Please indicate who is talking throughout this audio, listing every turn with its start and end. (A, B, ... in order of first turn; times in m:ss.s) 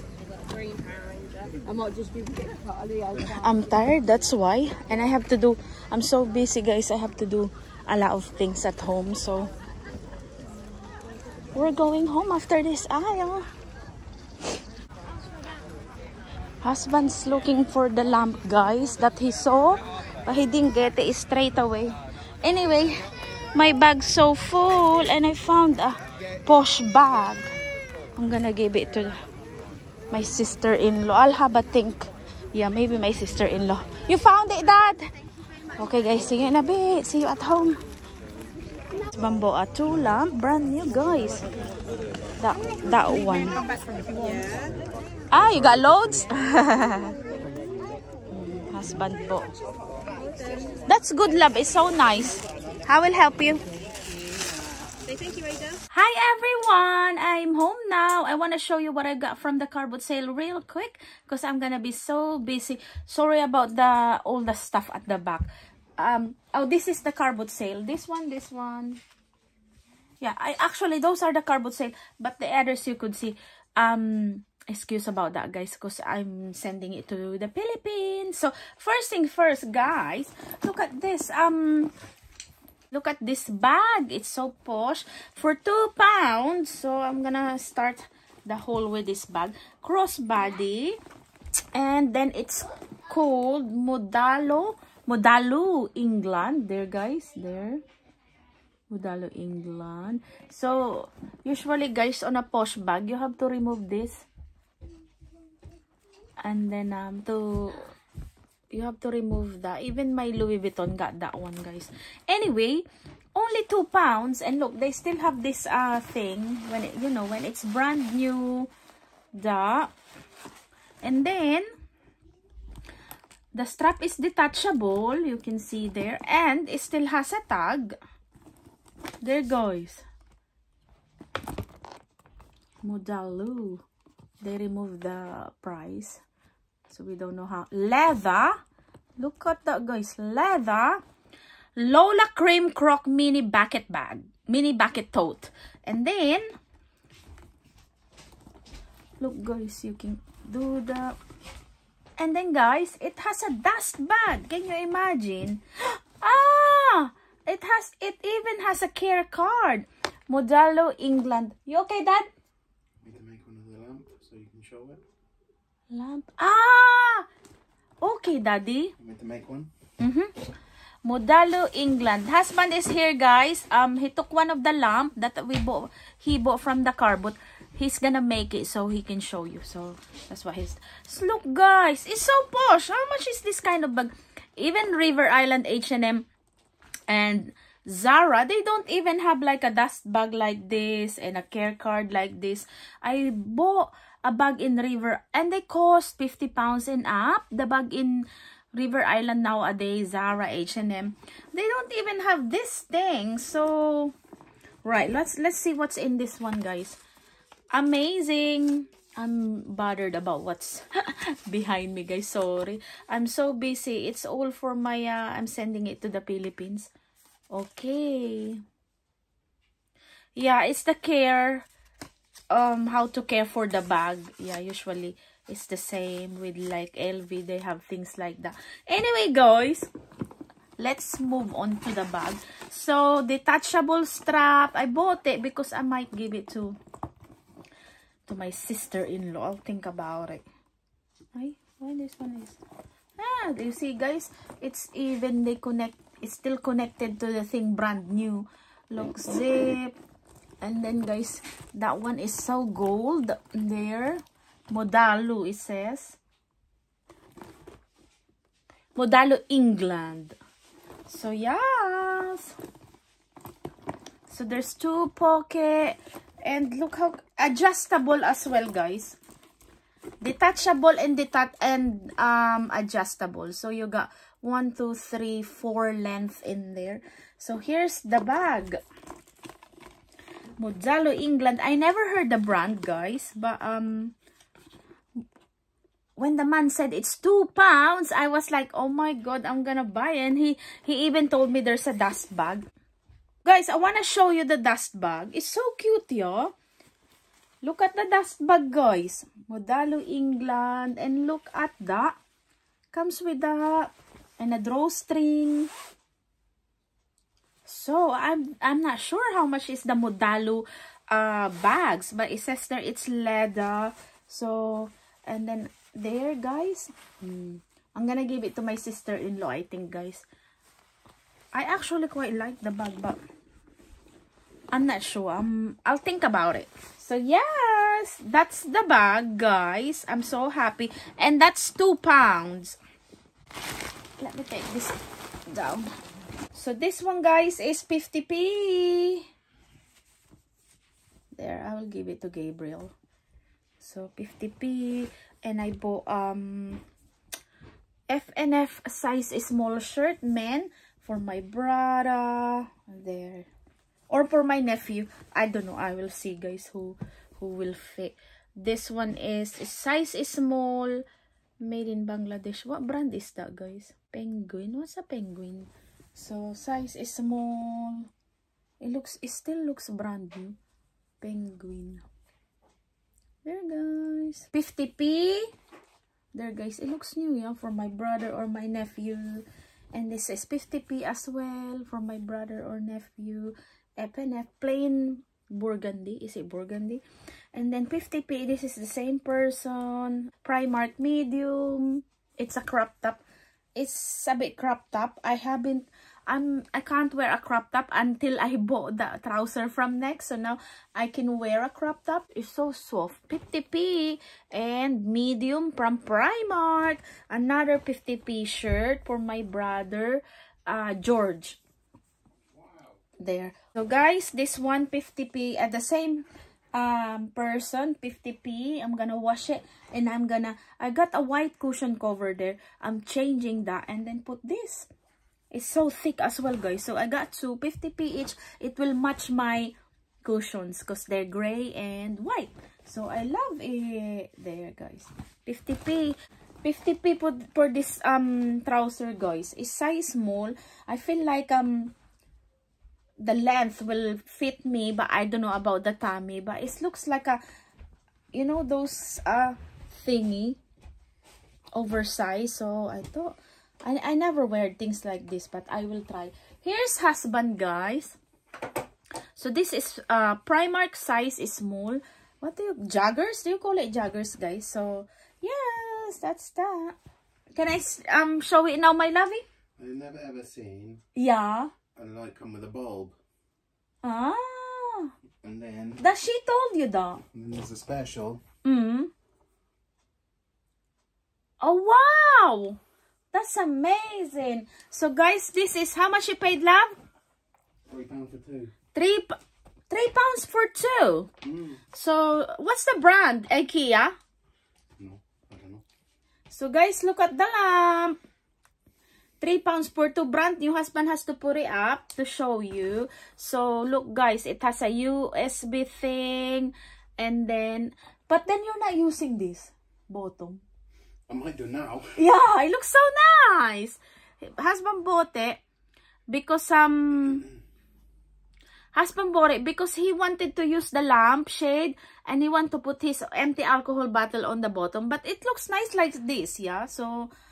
0:00.4-0:03.7 A
0:03.2-0:09.5 B
0:11.5-0:13.5 B
0:16.6-0:23.0 B
0:23.5-0:27.5 B
0:28.2-0:29.2 B
0:30.1-0:35.1 B
0:35.8-0:37.8 B
0:39.1-0:41.4 B
0:42.4-0:43.6 B
0:43.5-0:44.7 A
0:45.3-0:47.1 B
0:48.3-0:49.5 B
0:50.1-0:50.8 A
0:50.9-0:53.6 B
0:55.0-0:55.8 A
0:55.9-1:09.0 B
1:10.2-1:21.9 B
1:22.9-1:31.0 B
1:31.7-1:37.8 B
1:38.9-1:44.2 B
1:46.4-1:47.9 B
1:48.7-1:58.7 B
1:59.3-1:59.9 B
2:01.0-2:01.7 B
2:03.5-2:08.0 B
2:09.2-2:10.0 B
2:12.8-2:13.8 B
2:14.4-2:16.2 B
2:16.9-2:18.6 B
2:19.2-2:21.0 B
2:21.8-2:26.4 B
2:29.2-2:31.2 B
2:32.2-2:42.3 B
2:43.0-2:45.0 C
2:45.9-2:47.3 B
2:48.0-2:48.9 B
2:49.0-2:49.7 C
2:50.0-2:50.3 B
2:51.0-3:06.3 B
3:07.1-3:24.1 B
3:24.8-3:27.0 B
3:27.7-3:36.9 B
3:37.5-3:38.6 B
3:40.4-3:41.6 B
3:42.5-3:49.9 B
3:50.8-3:56.8 B
3:58.2-4:00.4 B
4:01.3-4:02.6 B
4:03.2-4:09.9 B
4:10.6-4:16.2 B
4:18.9-4:20.4 B
4:21.1-4:22.5 B
4:24.3-4:29.2 B
4:30.2-4:38.8 B
4:40.6-4:44.1 B
4:46.2-4:52.6 B
4:53.4-4:56.5 B
4:57.6-5:02.1 B
5:02.9-5:05.7 B
5:07.6-5:20.2 B
5:21.5-5:23.2 B
5:24.7-5:32.8 B
5:34.2-5:35.0 B
5:35.5-5:35.9 B
5:36.5-5:39.2 B
5:41.3-5:42.9 B
5:43.8-5:46.8 B
5:48.1-5:53.5 B
5:54.1-6:01.0 B
6:01.6-6:08.1 B
6:08.8-6:10.6 B
6:11.2-6:12.0 B
6:13.4-6:15.5 B
6:16.3-6:27.0 B
6:27.5-6:33.2 B
6:33.8-6:51.6 B
6:52.5-6:52.9 C
6:53.2-7:04.9 B
7:05.5-7:21.9 B
7:23.2-7:27.4 B
7:28.3-7:30.6 B
7:31.7-7:38.2 B
7:39.4-7:47.0 B
7:47.5-7:49.4 B
7:49.8-7:51.0 C
7:51.1-7:51.7 B
7:51.9-7:53.2 C
7:54.0-7:55.1 B
7:55.4-7:56.0 C
7:56.0-7:57.2 B
7:57.3-7:58.4 C
7:58.6-7:59.1 B
8:01.6-8:02.8 B
8:03.3-8:06.9 B
8:07.9-8:08.7 C
8:08.9-8:09.4 B
8:09.9-8:11.3 B
8:11.4-8:11.8 C
8:11.9-8:14.2 B
8:15.0-8:15.8 C
8:16.5-8:18.2 B
8:19.4-8:30.6 B
8:31.3-8:32.2 C
8:32.2-8:35.6 B
8:36.3-8:37.5 B
8:38.9-8:47.3 B